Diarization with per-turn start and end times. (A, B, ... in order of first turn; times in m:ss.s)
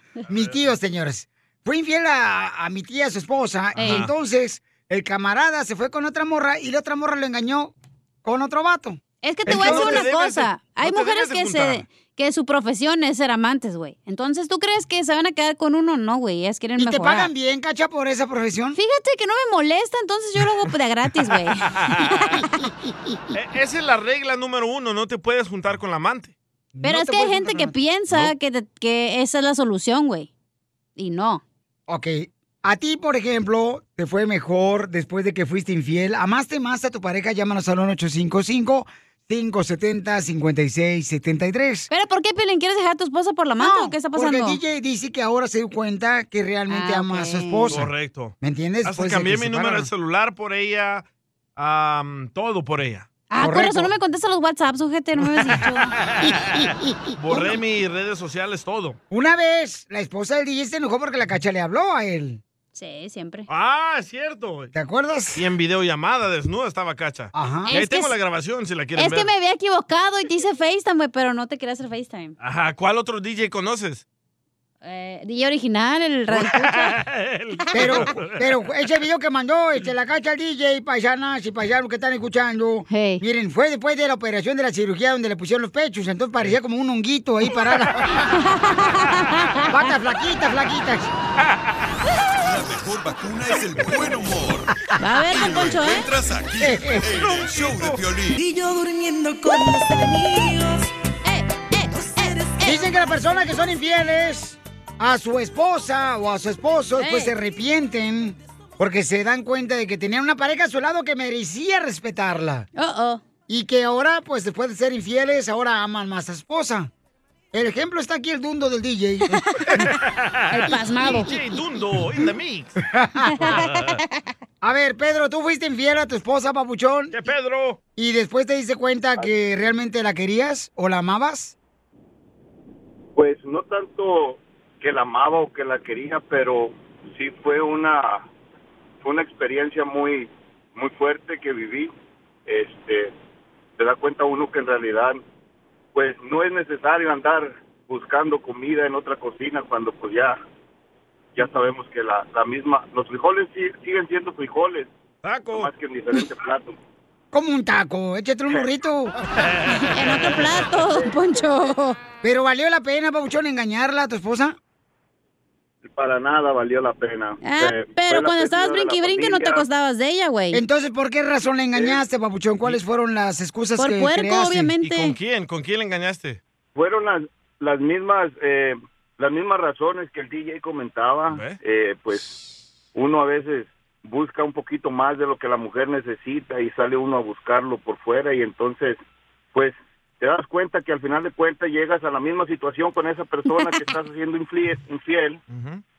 0:00.3-0:10.1 A
0:03.8-0:04.1 B
0:03.8-0:04.1 C
0:09.2-0:17.3 C
0:09.5-0:11.8 B
0:16.8-0:18.8 A
0:18.8-0:22.6 C
0:21.3-0:22.4 B
0:23.3-0:26.4 B
0:26.8-0:27.8 A
0:26.8-0:30.3 C
0:28.1-0:28.4 B
0:31.0-0:31.4 C
0:31.9-0:41.9 A
0:41.9-0:44.6 C
0:43.6-0:47.9 A
0:46.7-0:47.7 C
0:47.7-0:51.1 B
0:48.4-0:49.9 A
0:51.6-0:53.1 B
0:53.3-0:56.0 C
0:53.4-0:53.9 A
0:55.2-0:59.0 B
0:59.1-1:02.4 A
1:02.8-1:03.5 C
1:03.5-1:04.7 B
1:04.7-1:05.4 A
1:05.4-1:09.3 B
1:07.3-1:07.7 A
1:07.7-1:08.1 C
1:09.0-1:12.4 C
1:12.4-1:14.0 B
1:14.8-1:17.0 C
1:16.3-1:18.4 B
1:17.6-1:18.1 C
1:17.7-1:28.2 A
1:22.9-1:23.2 C
1:28.3-1:29.9 C
1:29.7-1:31.1 A
1:32.4-1:38.4 D
1:35.0-1:36.1 C
1:36.6-1:37.1 A
1:38.3-1:40.9 E
1:41.2-1:42.8 C
1:42.0-1:42.6 E
1:42.6-1:52.7 A
1:47.0-1:47.3 C
1:52.8-1:53.2 C
1:53.5-1:56.9 A
1:57.5-1:59.4 A
1:59.6-1:59.9 C
1:59.7-2:02.8 B
2:00.5-2:01.4 C
2:02.9-2:03.6 A
2:03.4-2:03.9 C
2:03.4-2:04.0 B
2:04.6-2:07.2 A
2:07.1-2:07.8 B
2:08.0-2:11.6 A
2:13.2-2:18.3 F
2:19.0-2:21.9 F
2:22.5-2:23.1 F
2:23.8-2:25.2 F
2:26.0-2:30.4 F
2:31.4-2:34.9 F
2:35.2-2:35.7 B
2:35.5-2:36.8 F
2:37.3-2:39.2 A
2:39.7-2:42.0 C
2:42.2-2:44.6 A
2:45.8-2:49.7 F
2:47.4-2:50.6 C
2:50.5-2:54.7 A
2:51.8-2:52.0 F
2:53.8-2:55.2 C
2:54.8-2:56.4 B
2:56.8-3:02.4 F
3:01.3-3:01.6 B
3:03.0-3:09.0 F
3:09.5-3:15.4 F
3:15.5-3:15.8 B